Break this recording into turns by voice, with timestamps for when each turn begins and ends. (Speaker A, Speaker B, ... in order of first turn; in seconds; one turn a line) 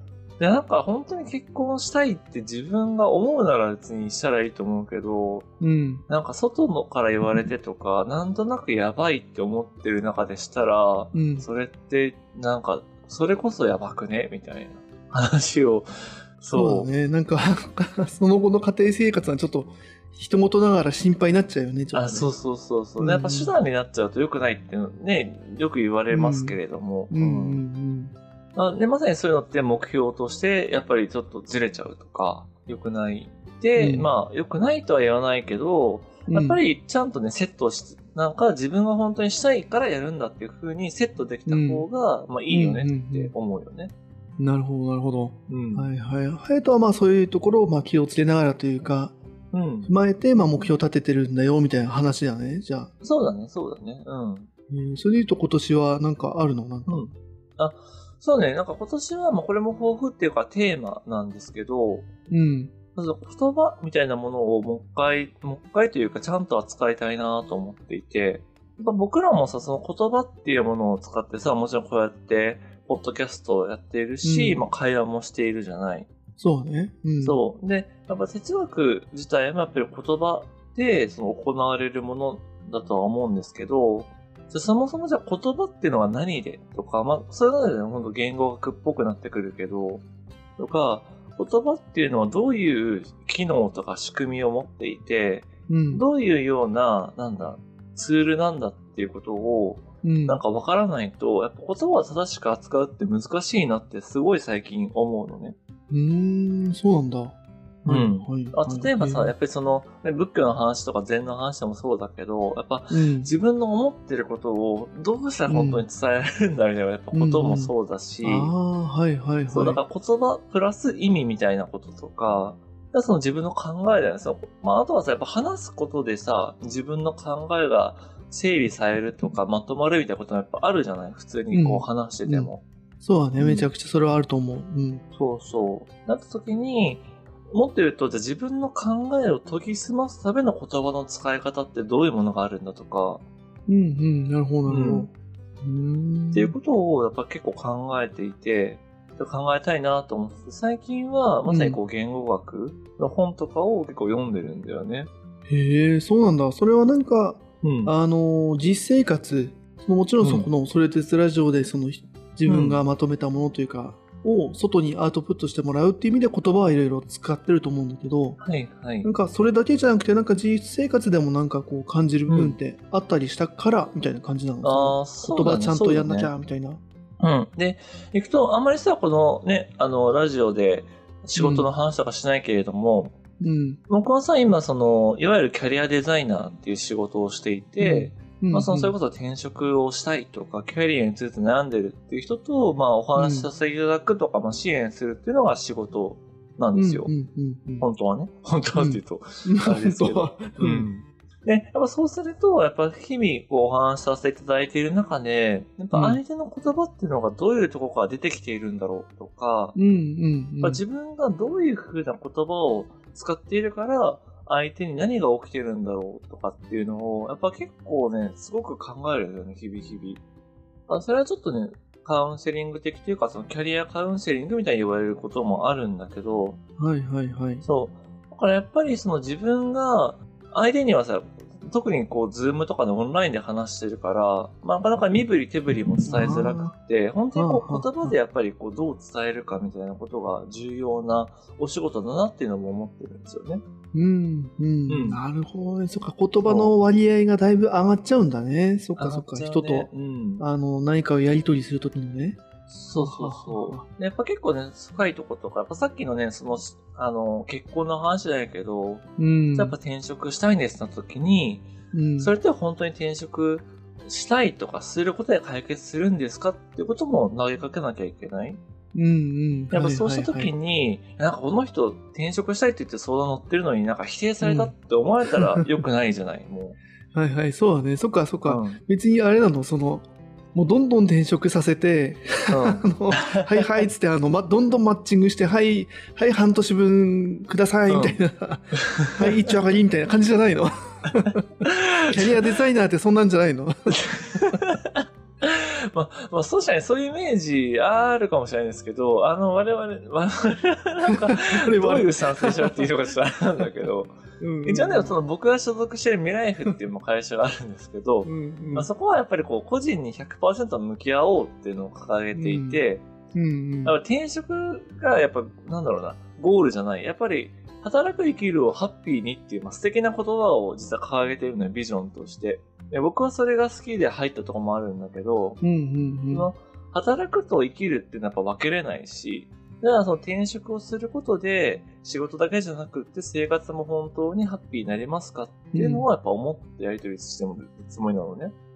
Speaker A: 0.4-5.5
Speaker B: 5.6-6.0
Speaker A: 6.1-16.9
Speaker B: 11.1-11.5
Speaker B: 16.5-22.3
Speaker A: 21.9-27.6
Speaker B: 23.0-23.5
Speaker B: 26.1-26.6
Speaker B: 27.1-28.1
Speaker A: 28.5-43.9
Speaker B: 33.8-34.1
Speaker B: 36.3-36.6
Speaker B: 41.5-41.9
Speaker B: 42.5-43.3
Speaker B: 44.4-49.1
Speaker A: 45.5-45.9
Speaker A: 49.5-49.9
Speaker B: 49.8-52.9
Speaker A: 53.0-54.5
Speaker B: 54.7-57.0
Speaker A: 56.9-62.1
Speaker B: 62.3-62.7
Speaker A: 62.9-76.1
Speaker B: 74.2-74.7
Speaker B: 76.4-77.4
Speaker A: 77.2-90.0
Speaker A: 90.6-105.5
Speaker B: 95.7-96.0
Speaker B: 100.0-100.4
Speaker B: 105.9-109.3
Speaker A: 107.8-118.5
Speaker B: 112.9-113.3
Speaker B: 115.5-115.8
Speaker B: 117.1-119.8
Speaker A: 119.5-132.6
Speaker B: 131.5-135.0
Speaker A: 133.4-133.7
Speaker A: 135.1-143.2
Speaker B: 143.7-145.1
Speaker A: 144.7-145.1
Speaker B: 145.6-146.5
Speaker A: 146.3-155.1
Speaker B: 151.5-151.8
Speaker B: 155.5-168.4
Speaker A: 157.6-157.9
Speaker A: 160.2-160.5
Speaker A: 162.4-162.8
Speaker A: 168.4-169.1
Speaker B: 169.0-176.8
Speaker A: 172.3-172.6
Speaker A: 174.6-176.3
Speaker A: 177.2-183.1
Speaker B: 181.4-181.7
Speaker B: 183.4-183.8
Speaker A: 183.9-197.1
Speaker B: 187.8-188.9
Speaker B: 193.2-193.5
Speaker B: 196.7-197.9
Speaker A: 197.8-209.8
Speaker B: 198.8-200.9
Speaker B: 205.9-206.2
Speaker B: 209.7-210.8
Speaker A: 210.6-220.2
Speaker A: 220.9-226.6
Speaker B: 226.8-227.6
Speaker A: 227.6-243.6
Speaker B: 236.0-236.7
Speaker B: 237.3-238.1
Speaker B: 243.9-252.4
Speaker A: 244.9-245.2
Speaker A: 246.4-246.7
Speaker A: 248.9-250.4
Speaker A: 252.7-268.6
Speaker B: 253.0-253.8
Speaker B: 259.2-259.7
Speaker B: 261.9-262.3
Speaker B: 268.9-270.5
Speaker A: 269.7-276.8
Speaker B: 274.4-274.7
Speaker B: 277.1-291.4
Speaker A: 278.4-278.8
Speaker A: 282.5-283.6
Speaker A: 287.9-288.2
Speaker A: 288.8-289.3
Speaker A: 291.6-292.4
Speaker B: 292.1-294.6
Speaker A: 294.0-313.0
Speaker B: 301.1-302.8
Speaker B: 304.4-305.1
Speaker B: 308.2-308.9
Speaker B: 312.3-312.8
Speaker B: 313.3-314.0
Speaker A: 313.8-325.6
Speaker B: 325.6-326.5
Speaker A: 326.3-338.5
Speaker B: 335.7-336.1